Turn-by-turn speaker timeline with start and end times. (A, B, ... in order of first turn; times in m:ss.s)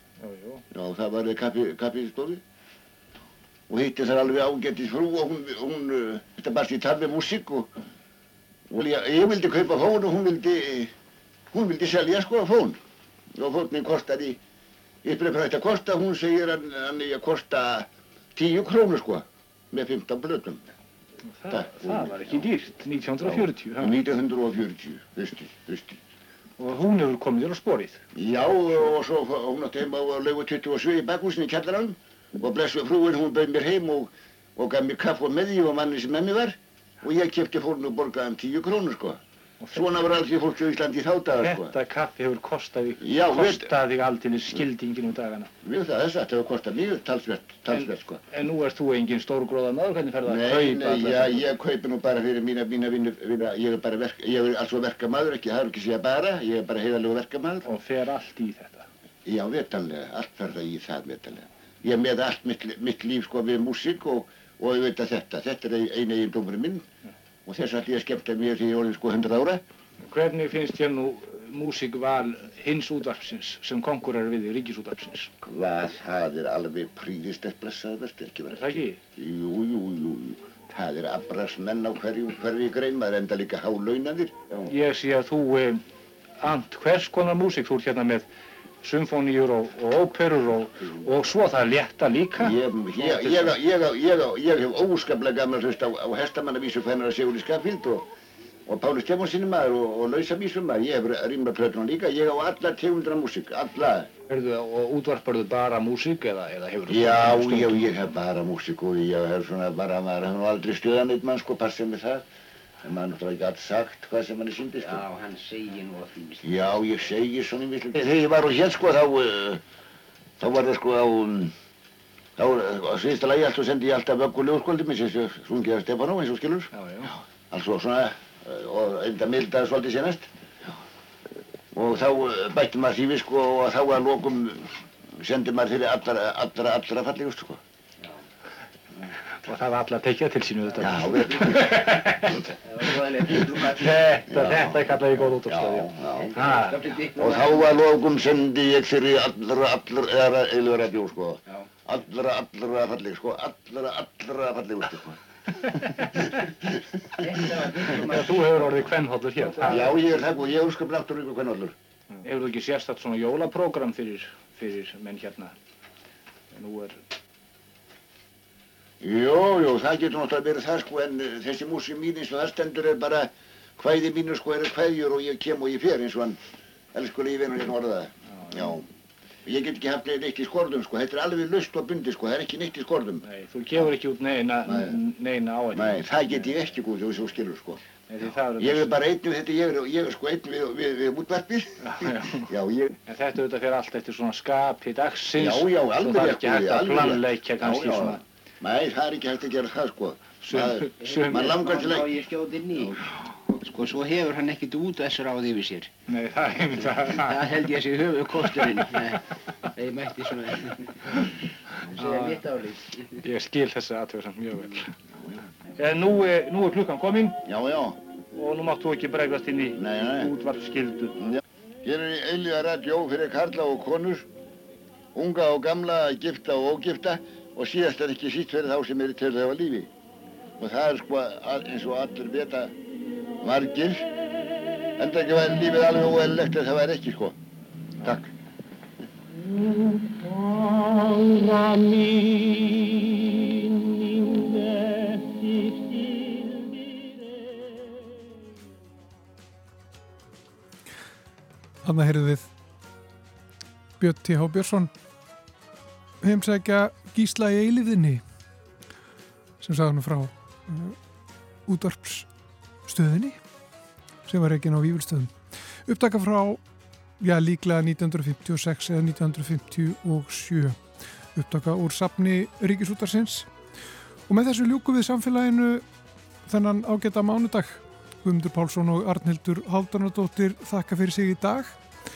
0:00.2-0:00.6 A
0:00.7-0:02.4 B
0:03.7-0:07.7 B
0:08.7-0:10.9 B
0:11.5-0:12.8 B
0:13.3-0:14.4 B
0:15.0-0:20.6 B
0:21.3-0:24.0 A
0:21.5-0:22.5 B
0:23.2-0:26.0 B
0:26.6-0:28.0 A
0:28.1-0:39.2 B
0:39.6-0:40.0 A
0:39.7-0:41.7 B
0:41.4-0:45.5 A
0:43.0-0:43.7 B
0:45.6-0:48.2 B
0:47.7-0:51.5 A
0:50.2-0:57.7 B
0:57.6-0:58.9 A
0:59.2-1:06.8 B
1:07.4-1:09.6 B
1:10.0-1:15.3 A
1:15.4-1:24.7 B
1:18.5-1:19.0 A
1:24.7-1:25.8 A
1:26.4-1:28.3 A
1:28.8-1:33.6 A
1:32.4-1:38.1 B
1:38.7-1:44.1 B
1:44.3-1:47.9 A
1:46.9-1:52.2 B
1:52.8-1:55.0 B
1:54.8-1:56.8 C
1:56.4-1:59.6 B
2:00.4-2:01.5 B
2:02.4-2:06.7 B
2:06.7-2:07.1 A
2:07.5-2:10.3 B
2:11.7-2:17.6 B
2:19.4-2:22.4 A
2:20.8-2:21.8 B
2:20.8-2:21.2 C
2:22.6-2:24.0 C
2:23.7-2:26.8 A
2:24.3-2:24.8 B
2:25.4-2:26.4 B
2:26.1-2:27.8 C
2:27.2-2:35.2 B
2:37.2-2:38.8 C
2:37.7-2:40.0 A
2:39.4-2:39.8 C
2:39.7-2:41.7 B
2:42.2-2:45.5 A
2:46.5-2:47.0 A
2:49.0-2:56.4 B
2:56.9-2:58.8 B
2:58.3-2:58.8 A
2:59.4-3:03.2 B
3:03.2-3:06.4 A
3:04.6-3:04.9 B
3:05.7-3:07.8 B
3:08.1-3:08.9 A
3:08.6-3:12.9 B
3:11.8-3:12.5 A
3:13.0-3:18.2 A
3:15.4-3:22.2 B
3:20.4-3:21.6 A
3:21.0-3:22.9 C
3:23.5-3:25.9 C
3:26.1-3:27.4 A
3:26.9-3:29.2 C
3:28.4-3:28.8 A
3:29.8-3:30.7 C
3:32.0-3:33.2 C
3:32.0-3:32.4 A
3:33.2-3:34.9 A
3:35.8-3:37.4 A
3:37.4-3:38.0 B
3:38.4-3:41.2 A
3:39.8-3:40.3 B
3:41.8-3:44.3 B
3:45.1-3:49.9 B
3:50.6-3:52.7 B
3:53.4-3:54.0 B
3:55.0-3:57.4 B
3:58.0-3:58.3 B
4:01.4-4:02.5 A
4:11.8-4:12.5 D
4:14.0-4:14.9 D
4:16.2-4:18.2 D
4:19.6-4:21.0 D
4:21.6-4:22.3 D
4:22.8-4:23.4 D
4:24.2-4:26.6 D
4:27.2-4:33.5 D
4:34.3-4:35.8 D
4:36.4-4:41.8 D